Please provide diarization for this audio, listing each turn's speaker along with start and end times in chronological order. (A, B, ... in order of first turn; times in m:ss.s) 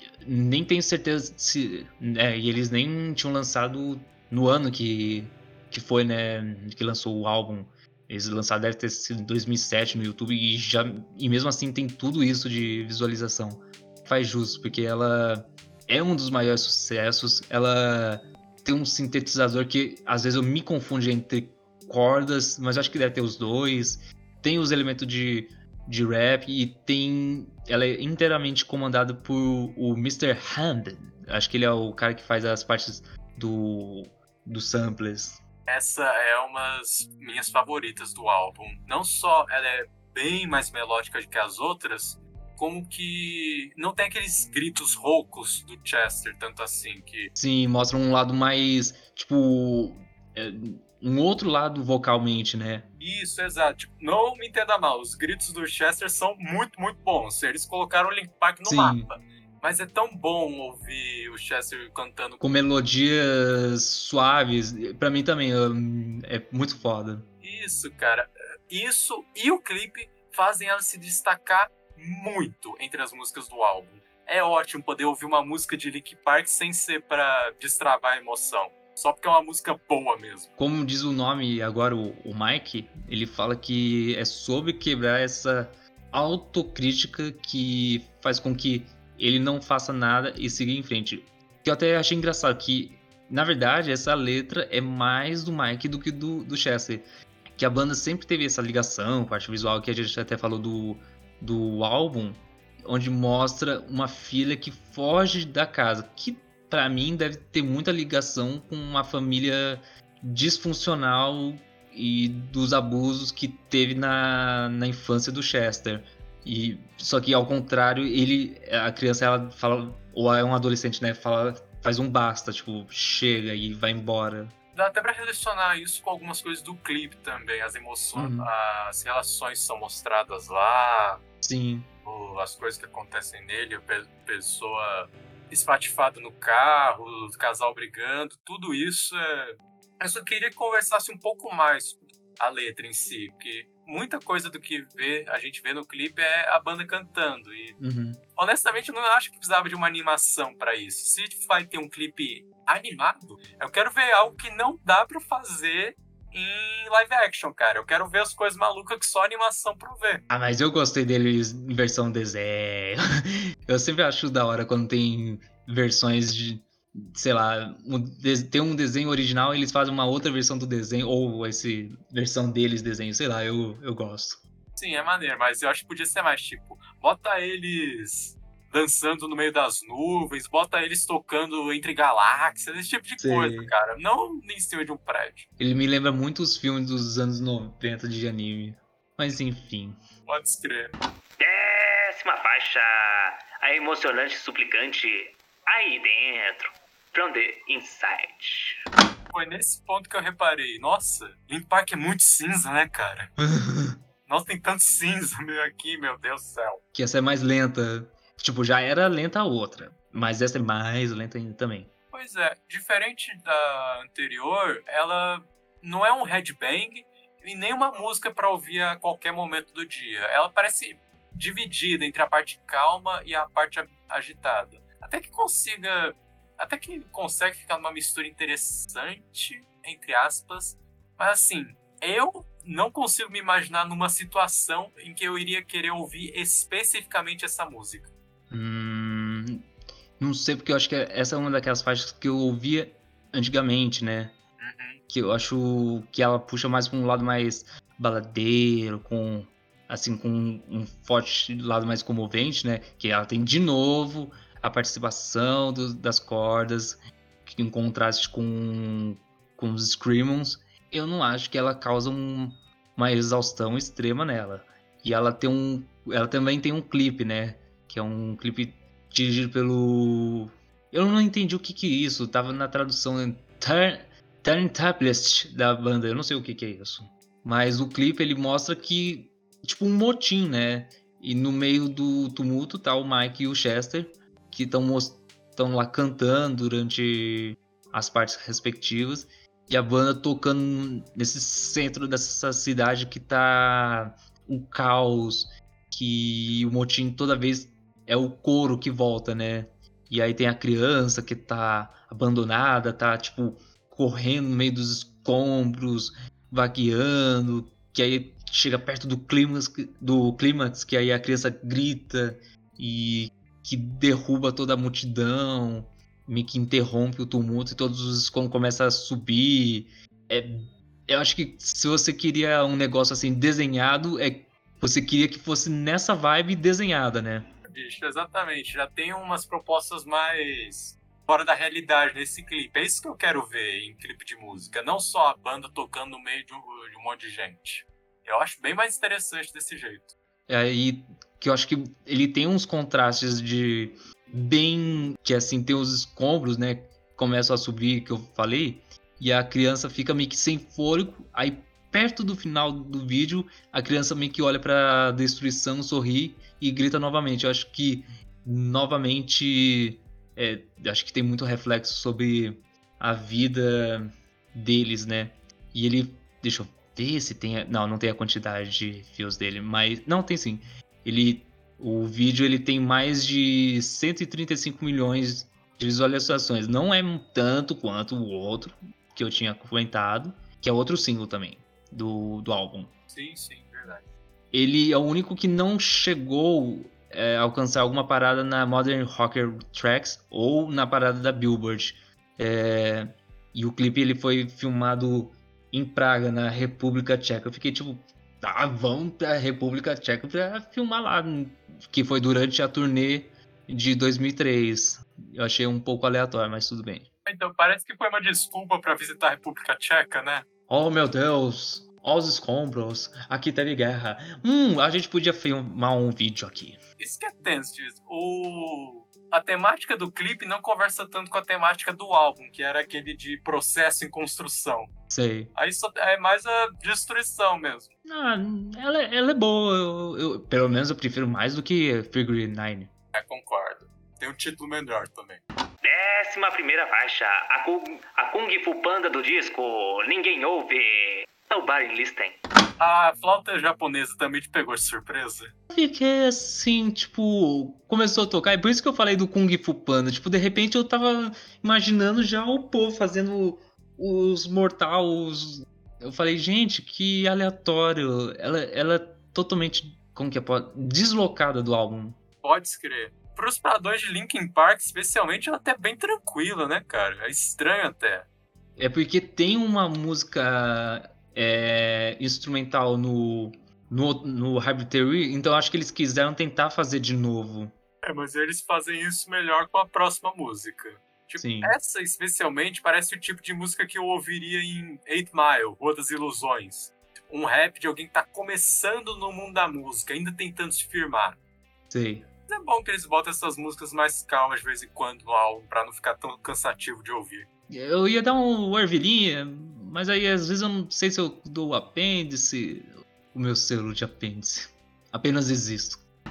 0:00.2-0:35.4 A
0:35.7-0:47.3 B
0:47.4-0:52.9 A
0:53.0-1:02.4 B
0:58.7-0:59.1 A
1:02.4-1:07.3 A
1:07.4-1:20.5 B
1:20.6-1:37.1 A
1:37.6-2:04.5 A
2:04.7-2:11.2 B
2:08.2-2:08.5 A
2:11.4-2:11.9 A
2:12.0-2:27.8 B
2:27.8-2:28.2 A
2:28.4-2:40.2 B
2:40.3-2:43.0 A
2:43.7-2:54.4 A
2:54.8-3:05.5 B
3:03.2-3:03.7 A
3:05.6-3:10.0 A
3:10.3-3:11.0 B
3:11.4-3:18.8 C
3:19.3-3:23.3 B
3:23.4-3:24.0 A
3:24.3-3:26.8 B
3:26.9-3:31.9 A
3:32.1-3:58.1 B
3:58.5-3:59.6 A
4:00.2-4:04.4 A
4:04.6-4:05.0 B
4:05.1-5:27.5 A
5:27.6-5:40.1 B
5:40.5-6:22.9 A
6:23.1-6:24.1 B
6:24.5-6:47.1 A
6:47.3-6:50.4 B
6:50.7-6:56.8 A
6:57.0-7:04.9 B
7:05.1-7:05.5 A
7:05.6-7:07.9 B
7:08.1-7:12.9 A
7:13.1-7:15.4 B
7:15.8-7:22.4 C
7:22.8-7:25.5 B
7:25.7-7:42.2 A
7:42.4-7:48.3 B
7:48.8-7:57.7 A
7:58.0-8:11.4 B
8:01.4-8:01.7 A
8:11.9-8:12.3 A
8:12.5-8:17.5 B
8:17.7-8:26.0 A